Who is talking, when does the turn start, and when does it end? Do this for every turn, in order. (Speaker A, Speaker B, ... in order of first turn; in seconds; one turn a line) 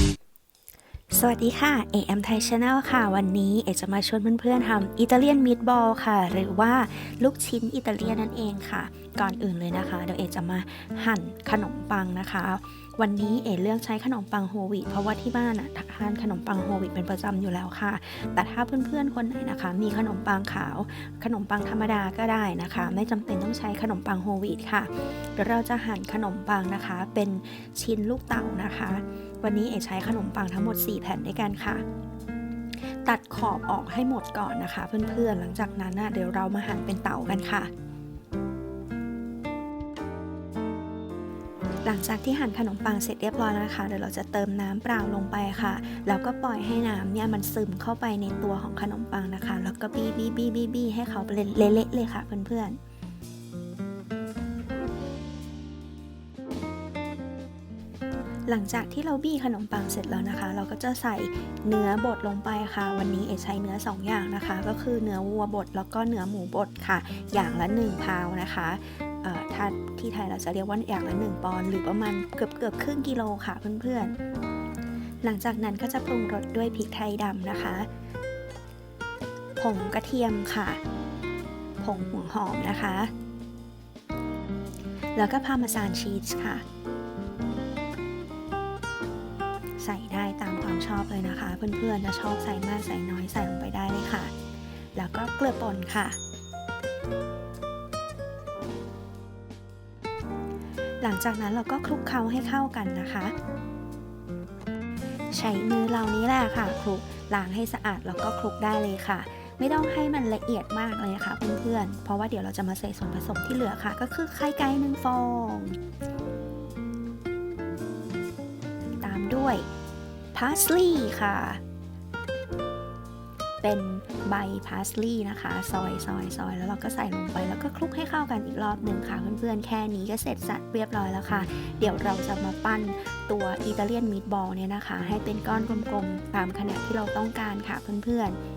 Speaker A: 1.1-31.8
Speaker A: 33.0-37.7
Speaker A: 41.8-52.8
Speaker A: 58.5-74.1
Speaker A: 75.2-77.9
Speaker A: 79.6-80.8
Speaker A: 81.8-83.1
Speaker A: 85.1-86.6
Speaker A: 89.8-94.3
Speaker A: 94.9-96.2
Speaker A: 101.0-103.3
Speaker A: 105.3-115.8
Speaker A: 119.0-119.7
Speaker A: 120.3-121.6
Speaker A: 123.6-138.4